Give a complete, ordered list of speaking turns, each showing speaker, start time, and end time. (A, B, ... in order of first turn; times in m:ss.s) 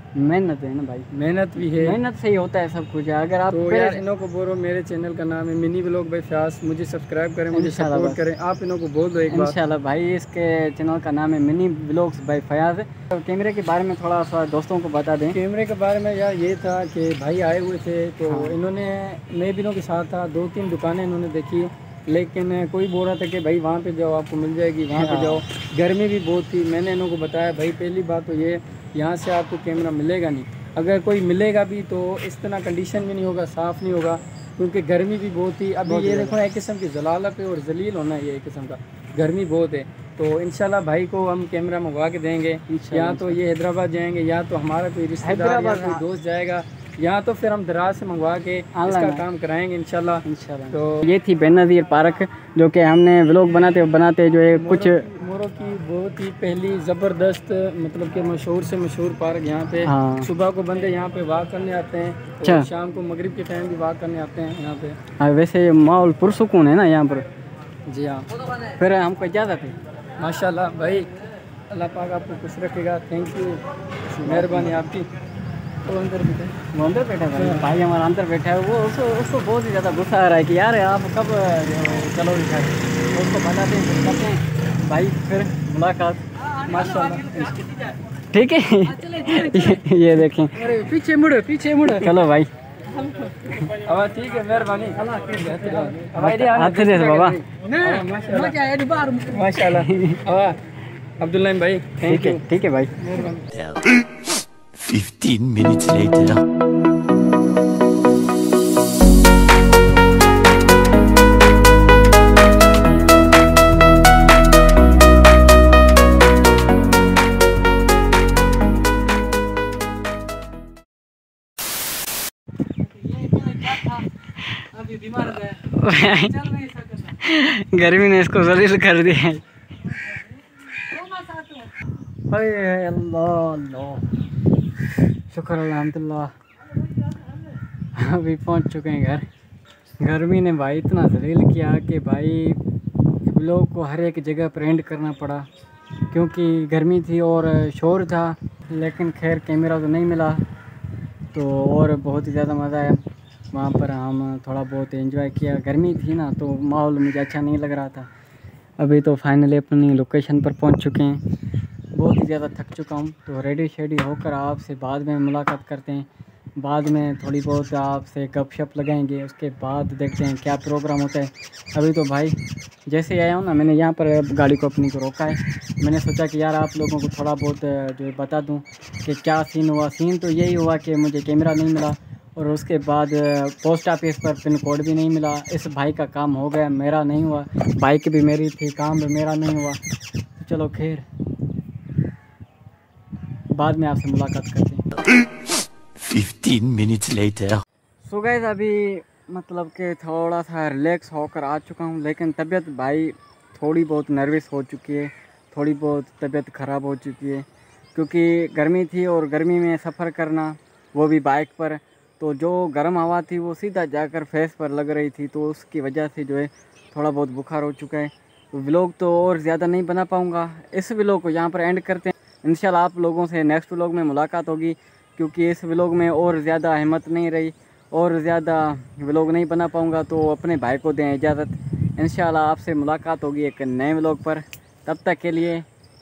0:00.2-0:04.0 A
0:01.1-0:02.0 B
0:03.5-0:09.6 B
0:07.5-0:08.2 A
0:09.3-0:15.4 A
0:15.3-0:51.0 B
0:18.3-0:18.6 A
0:25.0-0:25.4 A
0:35.8-0:36.4 A
0:42.7-0:43.4 A
0:45.2-0:46.0 A
0:48.7-0:49.2 A
0:50.2-0:55.0 A
0:54.5-1:05.0 B
0:59.8-1:00.3 A
1:02.4-1:02.7 A
1:05.2-1:07.3 A
1:07.9-1:08.3 B
1:08.8-1:09.8 A
1:10.2-1:11.1 B
1:11.7-1:15.1 B
1:14.2-1:14.8 A
1:15.9-1:16.6 B
1:16.7-1:26.2 A
1:17.4-1:17.8 B
1:26.7-1:27.7 B
1:28.3-1:30.7 A
1:30.6-1:32.2 B
1:31.9-1:32.5 A
1:33.4-1:40.6 B
1:35.1-1:35.4 A
1:36.2-1:37.4 A
1:39.7-1:40.2 A
1:41.2-1:42.4 B
1:42.0-1:43.0 A
1:43.0-1:43.5 B
1:43.5-1:44.0 C
1:44.8-1:46.4 C
2:03.2-2:04.0 A
2:04.6-2:09.4 A
2:11.0-2:11.7 A
2:12.3-2:14.1 A
2:15.3-2:16.3 A
2:18.0-2:19.3 A
2:20.0-2:22.6 A
2:23.2-2:25.5 A
2:26.1-2:30.4 A
2:31.3-2:33.0 A
2:33.5-2:38.1 A
2:38.8-2:41.2 A
2:42.0-2:52.4 A
2:52.9-3:09.8 A
3:10.4-3:11.1 A
3:13.5-3:14.9 A
3:16.0-3:17.6 C
3:18.0-3:55.7 A